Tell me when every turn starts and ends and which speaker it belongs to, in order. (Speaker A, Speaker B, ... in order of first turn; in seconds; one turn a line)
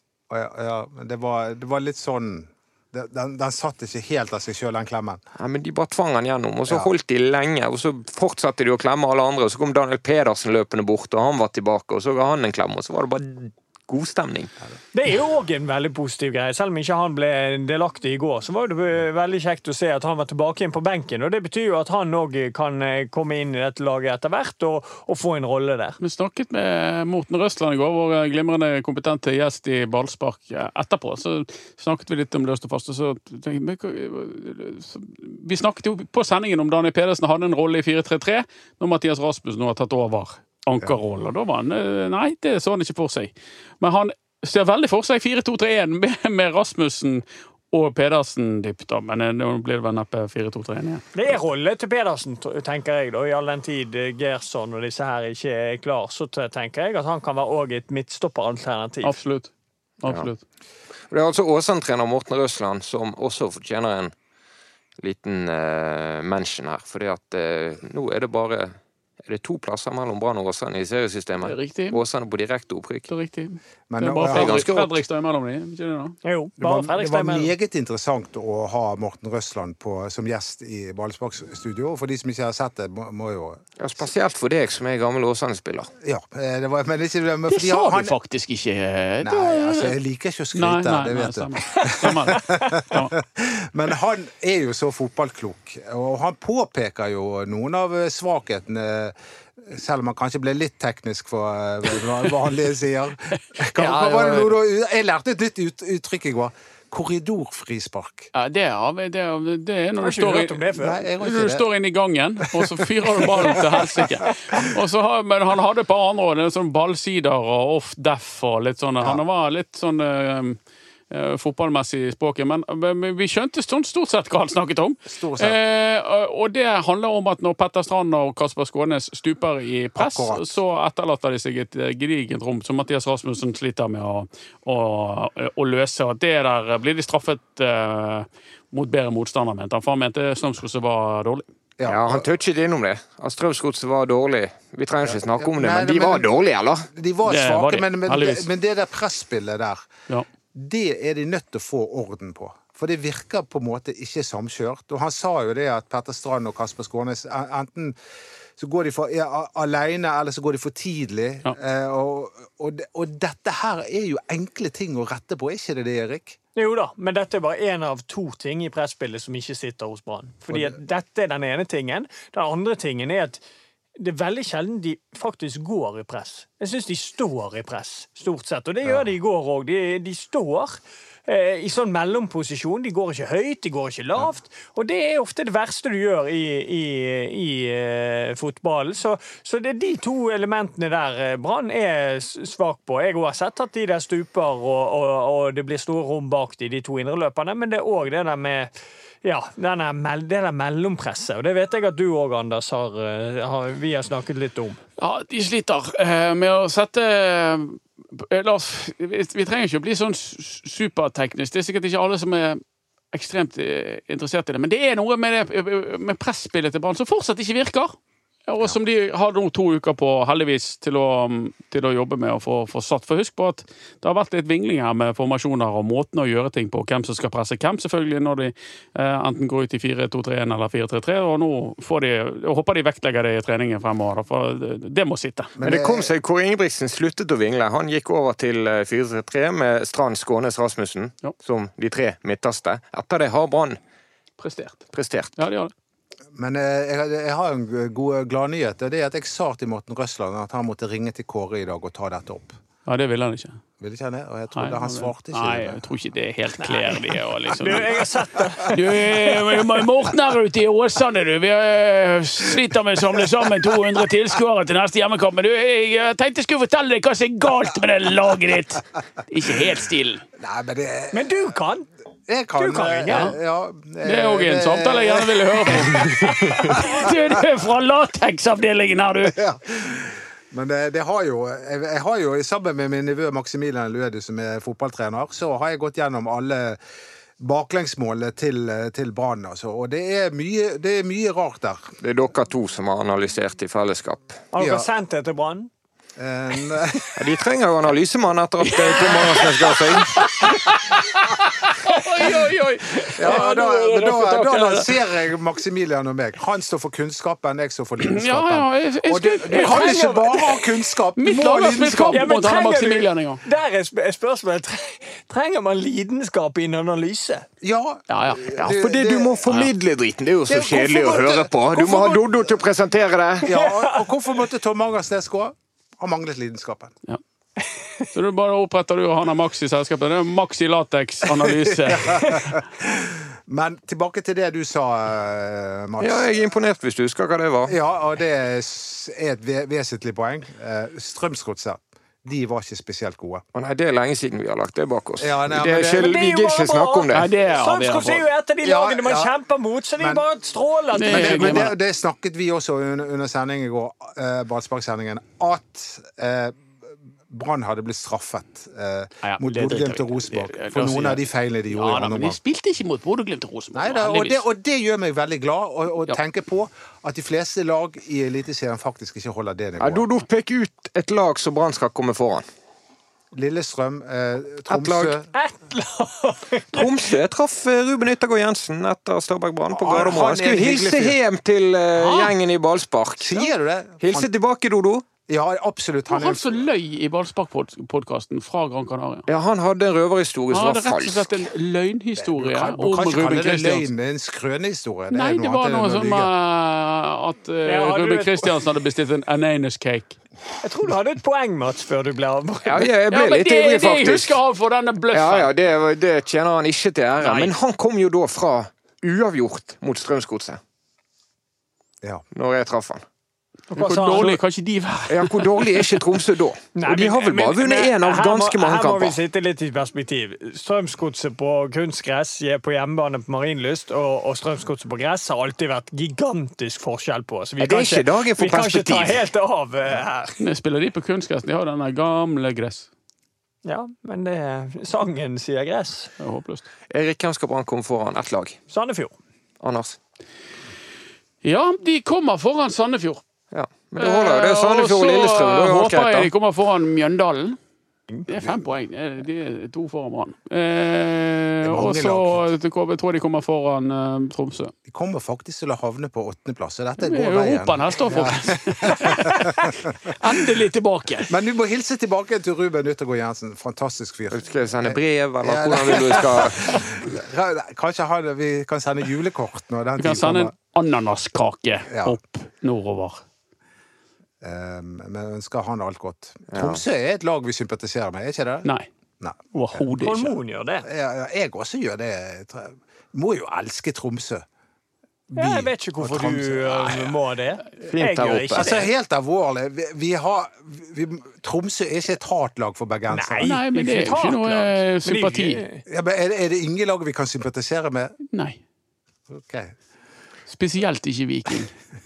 Speaker A: 0.3-5.2
Speaker B: 5.4-14.5
Speaker C: 14.9-26.0
Speaker D: 26.0-51.1
Speaker C: 51.1-59.2
Speaker D: 59.0-59.5
Speaker D: 60.0-60.4
Speaker B: 61.1-64.1
Speaker B: 65.0-73.1
Speaker D: 71.4-72.0
Speaker D: 73.1-76.2
Speaker A: 73.9-74.7
Speaker B: 74.3-75.0
Speaker C: 76.2-77.5
Speaker A: 76.6-83.6
Speaker B: 83.8-85.9
Speaker A: 86.0-88.1
Speaker D: 87.5-90.0
Speaker A: 89.2-108.3
Speaker D: 90.5-93.1
Speaker C: 91.9-92.7
Speaker D: 103.8-104.2
Speaker D: 108.3-110.6
Speaker C: 110.0-111.0
Speaker A: 110.8-111.7
Speaker D: 111.2-120.6
Speaker A: 112.5-114.7
Speaker D: 121.1-141.5
Speaker A: 125.1-125.6
Speaker A: 130.0-130.5
Speaker A: 141.8-142.2
Speaker B: 141.8-146.9
Speaker A: 145.0-146.3
Speaker A: 146.9-149.9
Speaker D: 147.2-148.5
Speaker A: 150.5-158.0
Speaker A: 158.6-166.4
Speaker C: 166.6-173.4
Speaker C: 174.0-198.7
Speaker C: 199.2-204.8
Speaker D: 205.0-218.0
Speaker D: 218.5-235.5
Speaker A: 235.6-236.1
Speaker B: 235.6-243.8
Speaker D: 244.4-244.8
Speaker B: 244.9-245.3
Speaker D: 245.4-245.7
Speaker A: 246.4-252.5
Speaker D: 252.9-253.6
Speaker A: 253.8-255.8
Speaker D: 254.6-258.0
Speaker C: 256.6-259.8
Speaker D: 258.7-270.2
Speaker A: 270.4-271.2
Speaker C: 271.1-271.9
Speaker A: 272.3-277.4
Speaker C: 272.6-273.3
Speaker D: 273.1-273.4
Speaker D: 274.0-279.4
Speaker C: 276.3-276.8
Speaker A: 279.3-286.8
Speaker A: 287.4-291.9
Speaker B: 292.0-294.4
Speaker C: 294.5-295.7
Speaker A: 294.6-294.9
Speaker A: 296.2-297.1
Speaker B: 297.1-300.3
Speaker D: 298.6-304.9
Speaker A: 303.2-312.4
Speaker D: 308.0-310.3
Speaker C: 309.5-310.6
Speaker D: 311.2-313.4
Speaker C: 312.1-317.5
Speaker A: 317.6-319.4
Speaker D: 318.1-318.6
Speaker B: 318.5-323.5
Speaker D: 319.5-319.7
Speaker A: 320.5-322.3
Speaker A: 323.4-326.9
Speaker C: 323.5-324.1
Speaker C: 327.7-328.1
Speaker D: 328.1-332.5
Speaker A: 331.3-336.3
Speaker C: 332.1-332.4
Speaker B: 336.0-337.8
Speaker A: 337.7-343.4
Speaker B: 343.5-347.3
Speaker A: 345.2-346.2
Speaker C: 345.9-351.7
Speaker D: 347.1-348.3
Speaker A: 348.6-349.3
Speaker A: 350.0-350.2
Speaker D: 350.9-351.8
Speaker A: 351.0-362.4
Speaker D: 359.2-364.4
Speaker A: 363.7-370.1
Speaker B: 369.8-372.4
Speaker A: 373.3-375.3
Speaker B: 374.7-375.2
Speaker C: 375.3-377.1
Speaker B: 376.7-385.1
Speaker A: 379.7-381.2
Speaker D: 382.0-382.4
Speaker A: 383.2-384.3
Speaker A: 385.3-386.6
Speaker D: 386.1-389.2
Speaker B: 389.3-391.4
Speaker D: 390.5-393.9
Speaker A: 392.2-396.3
Speaker D: 395.1-400.2
Speaker C: 397.6-398.5
Speaker C: 400.6-402.9
Speaker B: 402.6-404.4
Speaker D: 403.1-405.5
Speaker B: 405.1-410.6
Speaker C: 407.2-407.5
Speaker B: 412.3-413.0
Speaker C: 413.7-414.4
Speaker D: 413.8-416.0
Speaker B: 415.1-419.2
Speaker C: 416.8-430.4
Speaker B: 427.6-429.2
Speaker D: 430.4-432.9
Speaker C: 433.6-436.1
Speaker D: 436.2-436.7
Speaker B: 436.9-438.6
Speaker C: 438.7-439.1
Speaker B: 439.6-440.0
Speaker D: 441.4-443.2
Speaker B: 443.5-446.3
Speaker D: 444.0-447.6
Speaker D: 448.3-454.7
Speaker A: 451.6-452.5
Speaker A: 454.9-460.6
Speaker D: 457.0-461.3
Speaker A: 461.3-470.5
Speaker B: 464.3-467.0
Speaker D: 470.0-473.2
Speaker A: 471.9-472.2
Speaker A: 474.4-478.7
Speaker B: 476.5-476.8
Speaker A: 479.2-479.9
Speaker D: 479.5-480.4
Speaker C: 480.0-480.9
Speaker A: 480.8-484.4
Speaker A: 485.3-487.1
Speaker C: 485.4-488.9
Speaker B: 487.8-488.8
Speaker A: 488.5-493.6
Speaker C: 493.1-495.8
Speaker D: 493.4-495.6
Speaker A: 495.9-498.2
Speaker D: 498.3-498.6
Speaker A: 499.3-499.7
Speaker D: 500.5-501.7